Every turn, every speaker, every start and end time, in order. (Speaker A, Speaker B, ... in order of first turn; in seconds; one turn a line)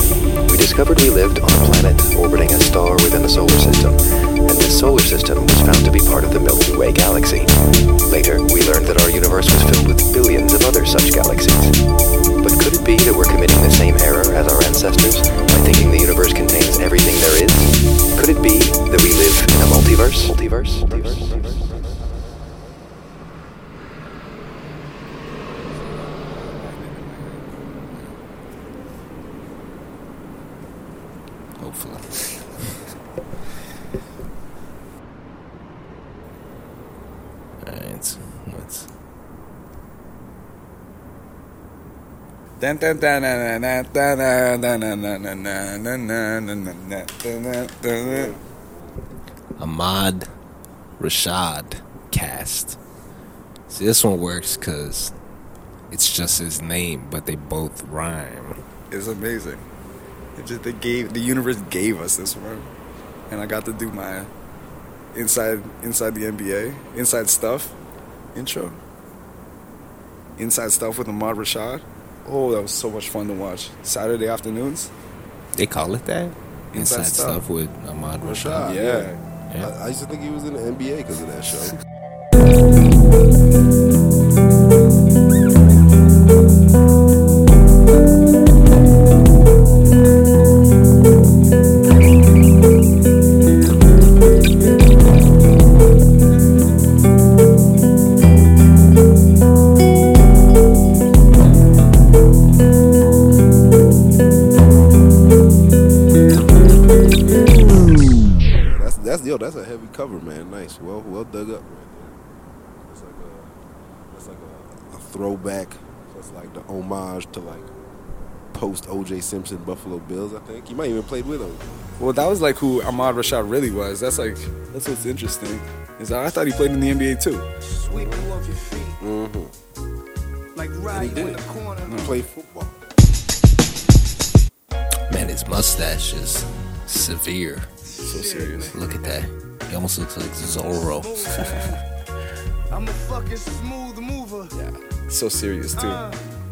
Speaker A: 0.5-7.5
Speaker A: 8.1-11.8
Speaker A: 12.4-21.6
Speaker B: 31.6-32.4
Speaker B: 37.6-38.9
Speaker C: 42.6-43.2
Speaker B: 42.8-43.9
Speaker C: 43.9-48.4
Speaker B: 44.6-45.0
Speaker B: 46.0-46.3
Speaker B: 47.1-48.1
Speaker B: 49.5-50.3
Speaker B: 51.0-52.8
Speaker B: 53.7-55.1
Speaker B: 55.9-58.6
Speaker C: 58.9-59.6
Speaker C: 60.4-62.7
Speaker C: 63.3-64.3
Speaker C: 65.1-67.7
Speaker C: 68.3-68.8
Speaker C: 70.4-74.9
Speaker B: 75.5-78.7
Speaker C: 76.7-77.4
Speaker D: 78.2-79.1
Speaker C: 78.7-79.2
Speaker D: 79.7-81.7
Speaker D: 108.5-112.2
Speaker D: 112.9-113.5
Speaker D: 114.1-117.7
Speaker D: 118.5-121.6
Speaker C: 122.0-125.5
Speaker B: 122.2-122.7
Speaker B: 124.5-126.3
Speaker C: 126.1-127.3
Speaker B: 127.0-127.4
Speaker E: 127.6-129.0
Speaker D: 129.0-129.5
Speaker E: 130.5-132.1
Speaker C: 130.9-132.2
Speaker D: 131.0-131.2
Speaker D: 132.0-132.7
Speaker B: 135.1-137.7
Speaker E: 137.9-139.0
Speaker C: 138.0-138.8
Speaker B: 138.7-141.4
Speaker E: 140.5-141.8
Speaker E: 142.7-144.5
Speaker C: 144.6-146.0
Speaker E: 145.8-146.2